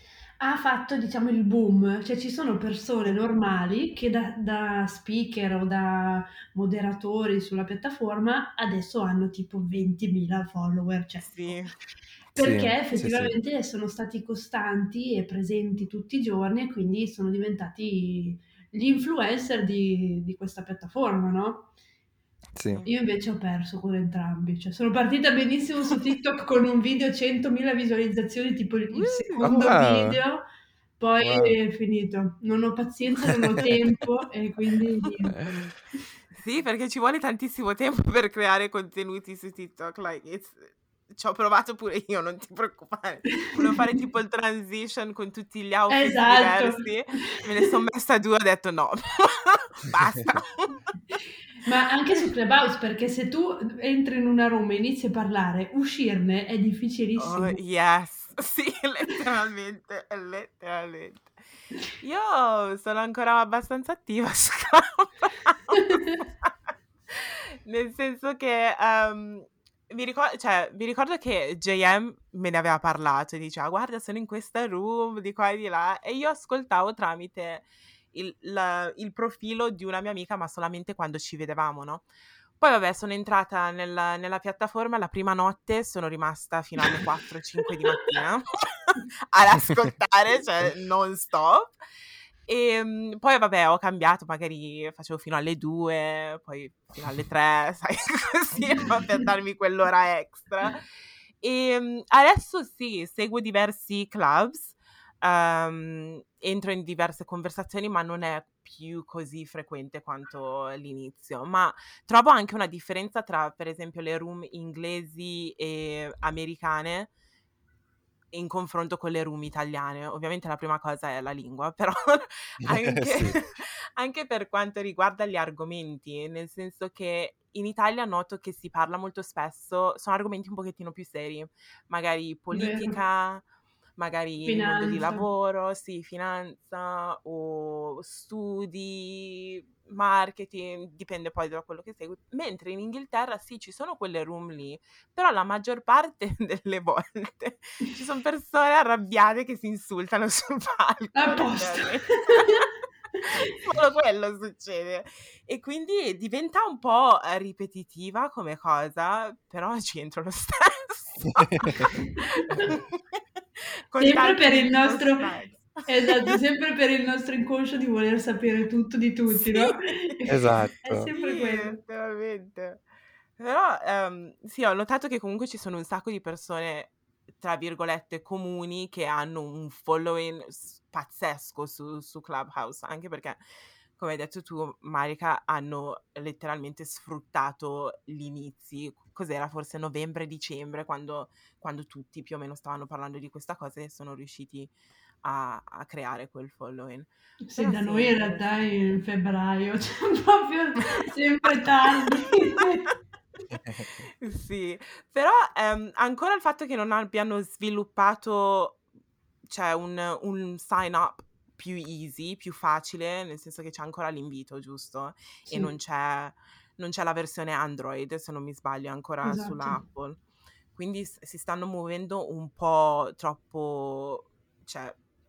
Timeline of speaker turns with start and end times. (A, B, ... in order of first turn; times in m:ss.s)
0:00.4-0:11.6 A
0:11.2-0:11.7 B
0:12.3-0:21.7 A
0:12.3-0:13.3 C
0:22.5-0:22.8 C
0:22.8-0:30.4 A
0:28.9-0:29.6 B
0:29.4-0:30.2 C
0:31.0-0:35.7 A
0:31.2-0:31.5 C
0:33.3-0:33.7 C
0:36.3-0:50.8 B
0:45.9-0:47.7 A
0:51.6-0:57.6 A
0:57.2-1:01.4 B
1:02.0-1:06.5 B
1:05.8-1:06.2 A
1:07.1-1:22.0 B
1:22.6-1:31.7 B
1:32.5-1:40.8 B
1:41.4-1:57.1 B
1:58.3-2:13.4 B
2:02.9-2:03.4 C
2:12.5-2:13.0 A
2:14.0-2:32.6 B
2:14.4-2:15.2 A
2:31.1-2:32.6 A
2:33.2-2:43.2 B
2:41.2-2:41.9 C
2:42.0-2:42.7 A
2:43.9-2:46.4 B
2:44.0-2:45.3 A
2:45.9-2:51.8 A
2:49.3-2:50.1 B
2:50.3-2:51.1 C
2:51.2-2:52.8 B
2:53.4-3:03.4 B
3:04.0-3:14.7 B
3:15.2-3:18.7 B
3:17.4-3:22.9 A
3:21.9-3:22.7 B
3:23.8-3:28.8 B
3:29.5-3:40.2 B
3:35.5-3:35.7 A
3:39.2-3:39.8 A
3:40.7-3:45.0 B